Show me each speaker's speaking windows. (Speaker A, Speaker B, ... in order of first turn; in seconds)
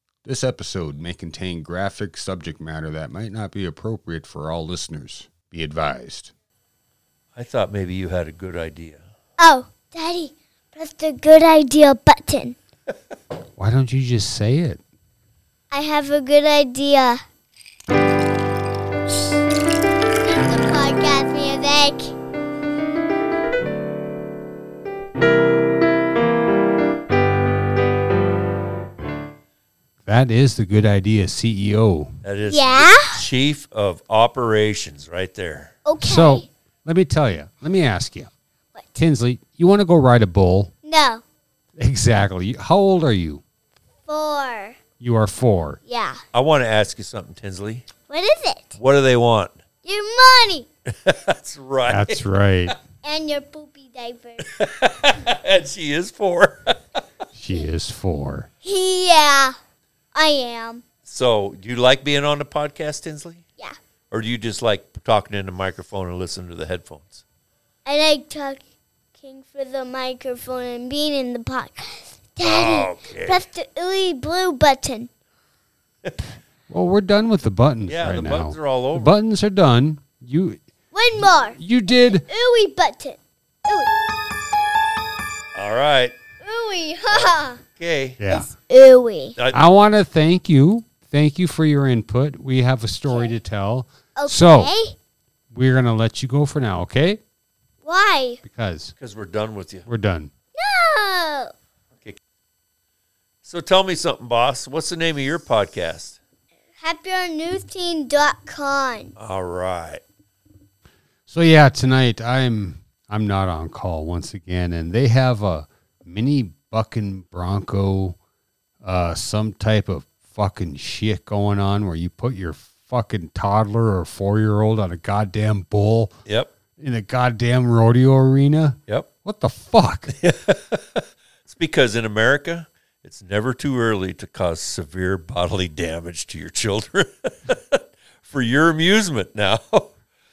Speaker A: 0.2-6.3, 13.6-14.8, 30.1-32.1, 36.0-38.3, 38.9-40.7, 41.8-43.4, 45.0-45.8, 51.9-52.7, 57.3-58.5, 76.7-80.6, 81.2-82.2, 88.2-88.5, 89.5-94.7, 95.5-97.2, 98.4-98.9, 99.9-100.3, 111.3-118.2, 118.8-126.1, 126.8-130.1
Speaker B: 7.3-9.0, 32.2-35.7, 46.3-47.9, 48.8-49.5, 50.9-52.2, 54.5-56.7, 61.0-63.4, 64.1-67.2, 72.4-73.4, 77.9-79.1, 85.5-86.1, 87.1-88.2, 99.0-99.9, 103.4-106.2, 109.2-110.0, 126.2-126.5, 130.1-139.9
Speaker C: 9.4-12.6, 15.7-17.2, 20.2-22.1, 32.5-33.2, 35.9-36.5, 40.8-41.2, 44.1-44.8, 45.9-46.2, 48.1-48.7, 49.8-50.7, 53.0-54.5, 58.6-59.5, 60.1-60.8, 67.8-68.6, 69.2-75.1, 80.9-83.9, 86.4-87.6, 88.3-89.3, 94.2-94.9, 97.8-98.4, 100.6-101.5, 106.8-109.1